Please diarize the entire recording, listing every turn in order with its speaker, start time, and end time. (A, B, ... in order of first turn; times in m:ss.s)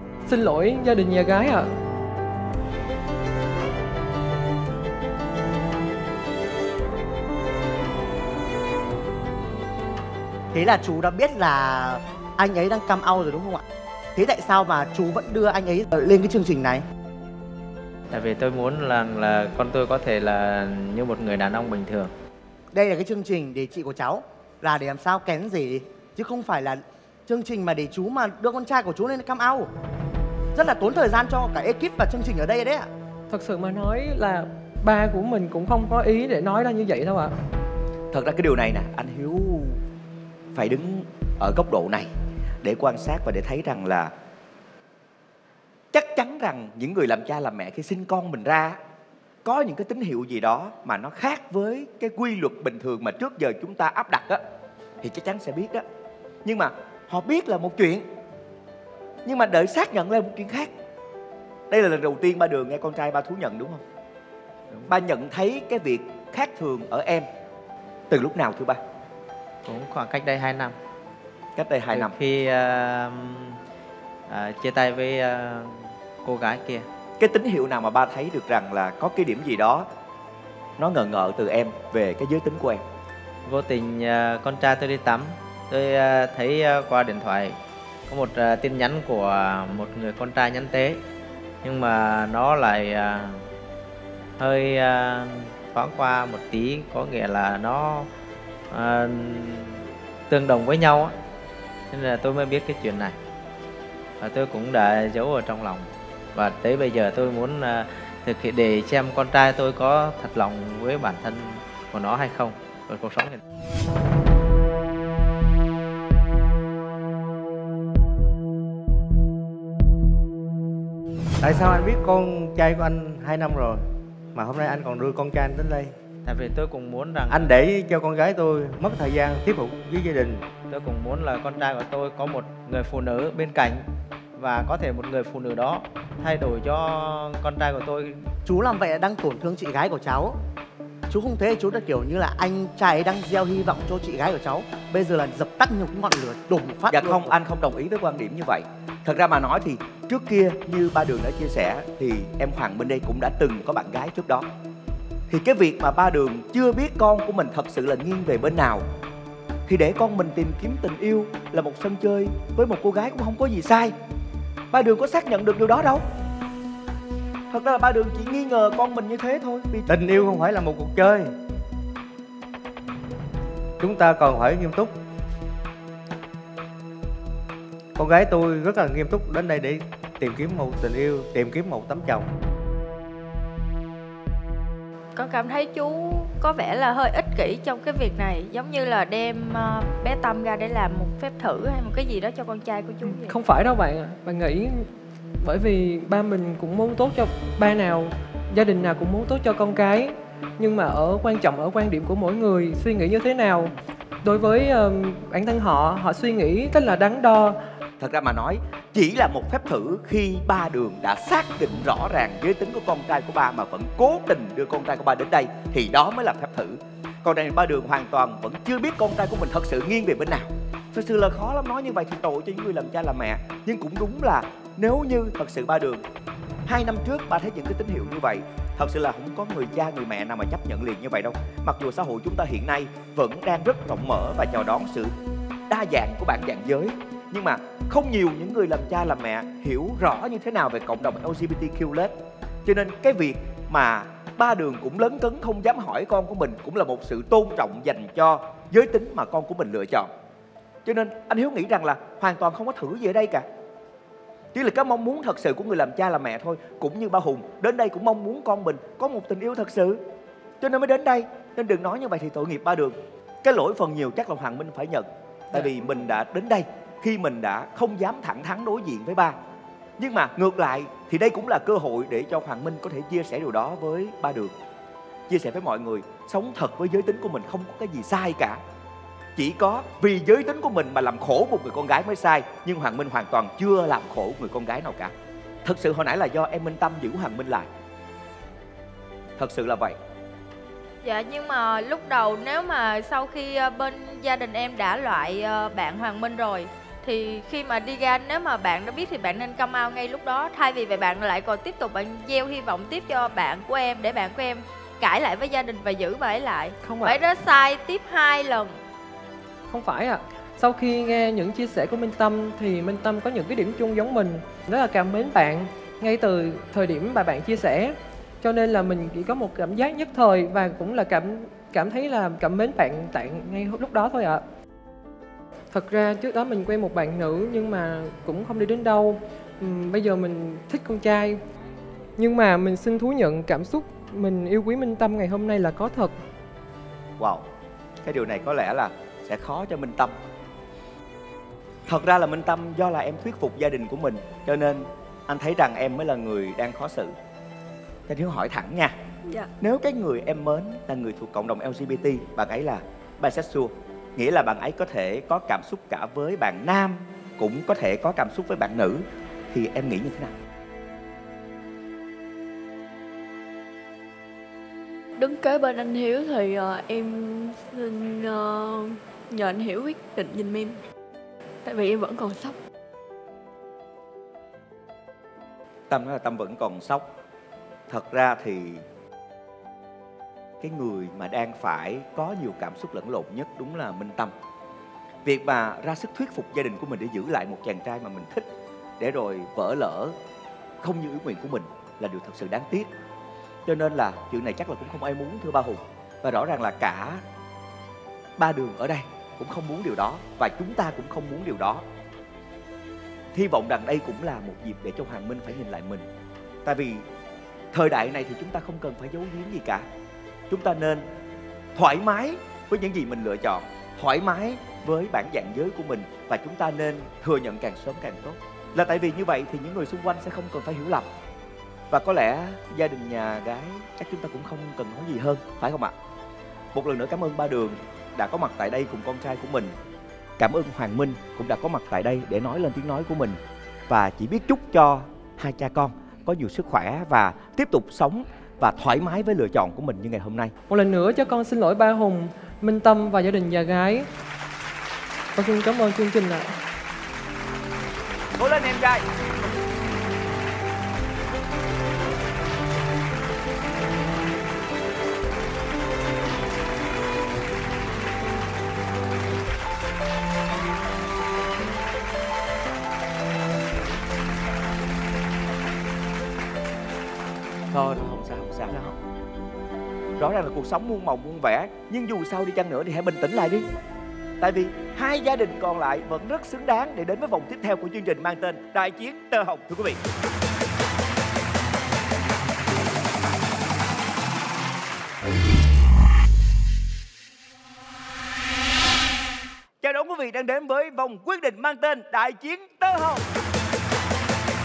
0:00.2-0:01.7 A
0:10.5-0:13.6 B
0:14.2-0:16.8 B
0:18.1-0:22.1 C
0:22.7-0:29.7 B
0:30.5-0:32.9 B
0:33.3-0:37.3 A
0:38.1-0:39.8 D
0:40.5-0:42.1 D
0:42.6-0:44.1 D
0:45.9-0:48.8 D
0:49.4-0:54.4 D
0:55.0-0:55.8 D
0:56.4-0:58.0 D
0:59.2-1:00.7 D
1:01.7-1:03.8 D
1:04.9-1:07.3 D
1:08.1-1:08.8 D
1:09.6-1:10.8 C
1:11.6-1:12.1 D
1:11.9-1:13.6 C
1:14.3-1:16.8 C
1:17.2-1:19.9 D
1:20.8-1:22.8 D
1:23.4-1:27.6 C
1:28.1-1:31.0 C
1:31.6-1:33.5 C
1:34.4-1:38.1 C
1:38.7-1:41.1 C
1:41.9-1:43.2 C
1:44.2-1:53.4 C
2:01.4-2:05.9 E
2:06.2-2:07.4 C
2:07.3-2:10.5 E
2:10.7-2:18.2 C
2:18.4-2:20.4 B
2:21.1-2:27.3 B
2:26.9-2:34.5 D
2:35.3-2:38.8 D
2:39.7-2:43.9 D
2:44.7-2:46.0 D
2:47.5-2:50.1 D
2:49.9-2:51.3 E
2:53.8-2:55.0 E
2:57.9-3:02.3 E
3:05.2-3:13.4 F
3:13.0-3:27.6 A
3:28.0-3:46.0 D
3:46.6-3:55.1 D
3:55.7-4:02.1 D
4:02.6-4:10.1 D
4:10.8-4:13.4 D
4:14.5-4:20.0 D
4:20.6-4:29.4 D
4:30.0-4:34.5 D
4:35.3-4:38.6 D
4:39.4-4:45.1 D
4:45.6-4:47.7 D
4:49.4-4:50.0 D
4:51.0-5:08.8 F
5:06.8-5:07.2 A
5:09.7-5:24.4 A
5:25.7-5:31.4 A
5:32.2-5:36.2 A
5:37.2-5:37.4 D
5:38.0-5:40.1 D
5:41.9-5:47.1 D
5:48.1-5:48.9 D
5:49.6-6:00.3 D
6:05.2-6:10.8 G
6:11.6-6:12.6 G
6:15.9-6:17.1 D
6:17.9-6:18.8 D
6:20.6-6:24.3 D
6:25.2-6:28.4 D
6:29.0-6:30.1 D
6:30.8-6:32.9 D
6:33.6-6:37.2 D
6:38.4-6:41.8 D
6:43.3-6:46.1 D
6:46.6-6:47.0 D
6:47.7-6:49.8 D
6:50.5-6:51.0 D
6:51.7-7:01.1 D
7:01.9-7:05.9 D
7:06.7-7:09.7 D
7:10.4-7:13.4 D
7:13.9-7:20.5 D
7:20.7-7:24.1 A
7:25.3-7:26.5 A
7:28.4-7:29.0 D
7:47.7-7:48.9 D
7:50.2-7:53.6 D
7:54.4-8:00.0 D
8:09.8-8:13.2 D